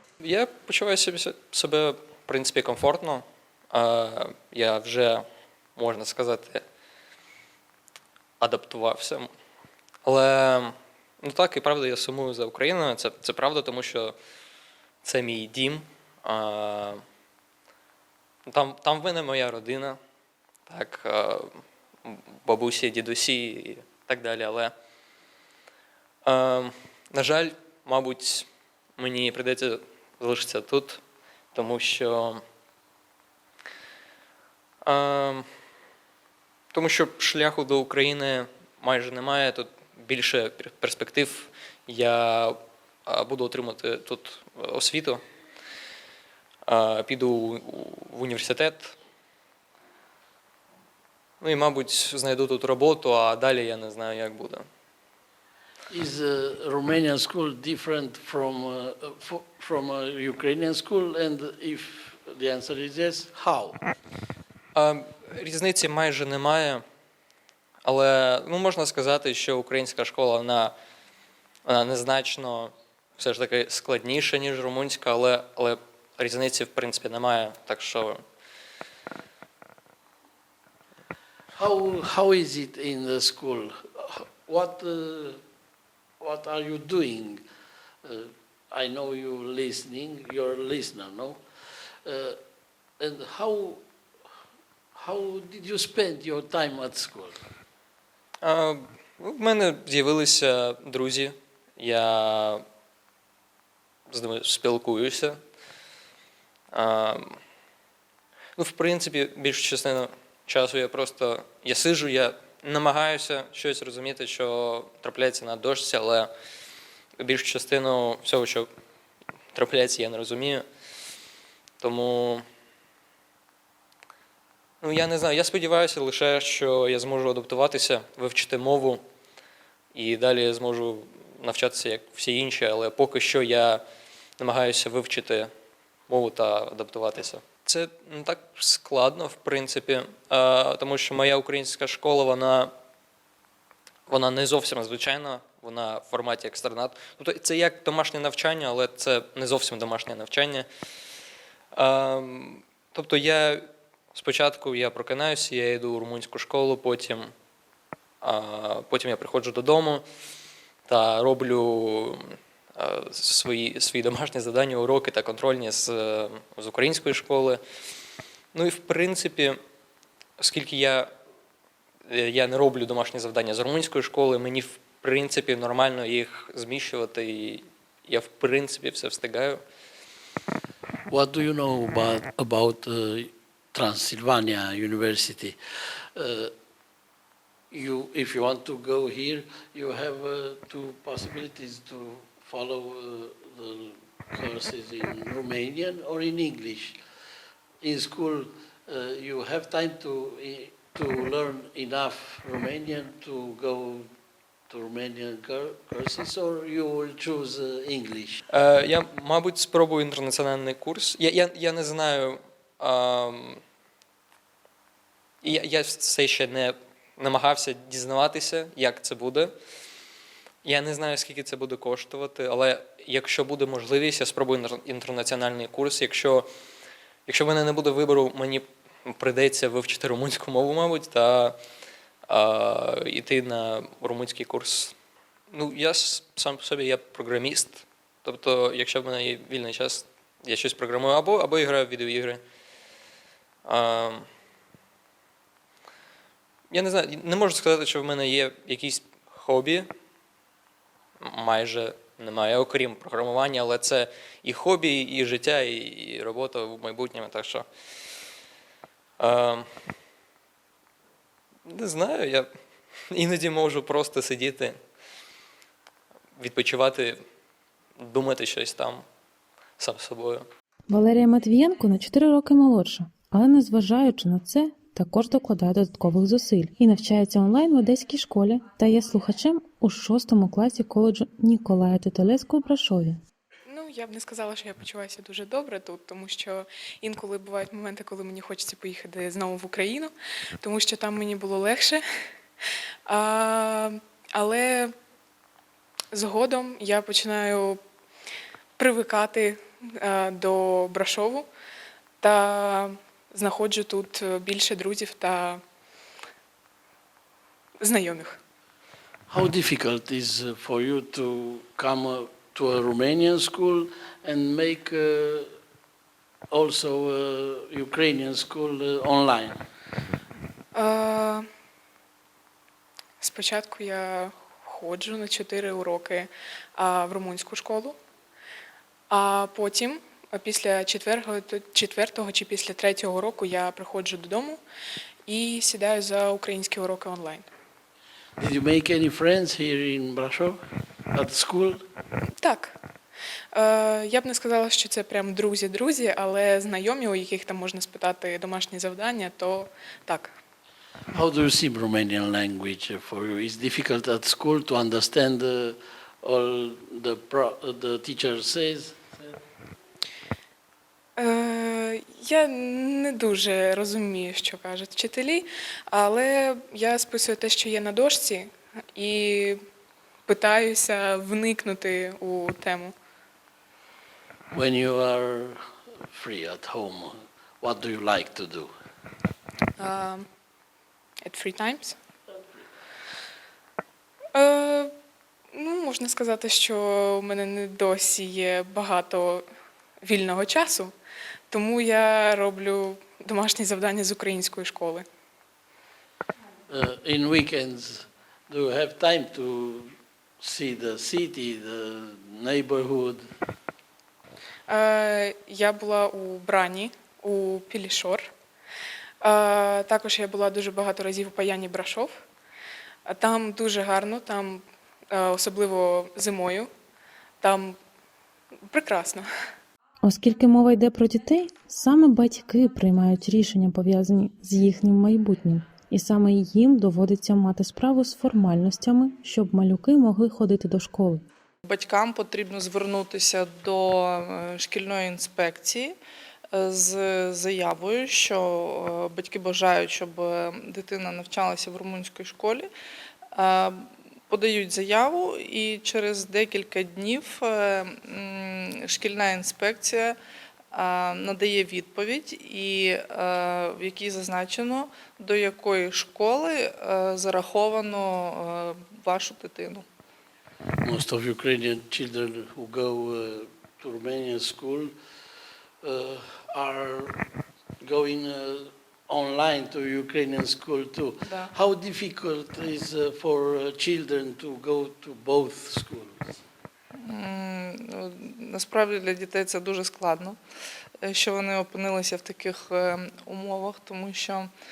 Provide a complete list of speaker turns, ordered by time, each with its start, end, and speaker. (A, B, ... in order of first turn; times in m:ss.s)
0:00.2-0:05.2 A
0:05.8-0:06.6 A
0:08.4-0:09.3 A
0:10.0-0:14.1 A
0:15.0-0:17.0 A
0:18.5-0:20.0 A
0:20.7-0:21.5 A
0:22.0-0:24.7 A
0:26.2-0:31.0 A
0:31.5-0:32.4 A
0:34.8-0:35.5 A
0:36.7-0:45.2 A
0:46.6-0:48.9 A
0:51.4-0:54.6 A
0:55.9-1:03.8 B
1:04.7-1:06.8 A
1:07.8-1:10.7 A
1:11.6-1:18.2 A
1:21.5-1:25.4 B
1:26.2-1:27.4 B
1:28.0-1:31.4 B
1:32.0-1:32.4 B
1:33.0-1:33.8 B
1:34.9-1:37.4 B
1:38.4-1:42.6 A
1:44.1-1:45.4 A
1:46.7-1:47.4 A
1:48.6-1:56.3 A
1:57.2-1:58.7 A
1:59.5-2:00.6 A
2:01.8-2:02.4 A
2:04.8-2:09.0 A
2:09.9-2:13.8 A
2:14.4-2:15.5 A
2:16.1-2:22.7 A
2:24.1-2:30.7 A
2:31.7-2:37.3 A
2:38.2-2:40.0 A
2:40.9-2:47.6 A
2:48.5-2:49.6 A
2:50.4-2:51.1 A
2:52.1-2:59.6 A
3:01.1-3:05.6 B
3:06.2-3:06.5 B
3:07.7-3:17.0 B
3:17.8-3:24.1 B
3:24.7-3:28.4 B
3:28.5-3:33.6 A
3:35.4-3:39.5 A
3:40.6-3:46.5 A
3:47.3-3:51.6 A
3:52.3-3:54.9 A
3:55.5-4:02.4 A
4:03.6-4:04.2 A
4:06.7-4:09.9 A
4:11.2-4:17.7 A
4:19.2-4:19.6 A
4:21.6-4:22.5 A
4:23.1-4:24.8 A
4:26.4-4:27.2 A
4:28.0-4:29.0 A
4:29.8-4:30.5 A
4:30.9-4:43.2 C
4:43.6-4:52.0 D
4:53.0-4:54.9 D
4:56.1-4:57.8 D
4:58.8-5:01.5 D
5:02.2-5:05.6 D
5:07.8-5:08.4 D
5:09.3-5:15.5 B
5:16.5-5:19.6 B
5:20.7-5:21.4 D
5:23.2-5:28.0 D
5:29.1-5:34.6 D
5:35.3-5:37.5 D
5:38.4-5:40.6 B
5:41.1-5:41.8 B
5:42.4-5:42.8 D
5:43.5-5:50.3 D
5:51.1-5:59.3 B
6:01.2-6:09.6 D
6:10.3-6:12.9 D
6:14.5-6:15.6 B
6:16.1-6:18.7 B
6:19.8-6:20.2 D
6:21.2-6:22.0 D
6:24.3-6:24.9 D
6:25.5-6:29.4 D
6:30.0-6:30.9 D
6:31.5-6:35.0 D
6:36.7-6:43.2 B
6:44.7-6:48.3 D
6:49.2-6:52.1 D
6:53.0-6:56.7 D
6:57.4-6:57.8 D
6:58.7-6:59.2 D
7:00.0-7:11.2 C
7:11.6-7:16.0 E
7:16.5-7:22.7 E
7:23.3-7:30.2 E
7:30.7-7:39.8 E
7:40.8-7:44.9 B
7:45.8-7:47.2 B
7:47.8-7:56.4 B
7:56.9-8:00.4 E
8:01.0-8:04.5 E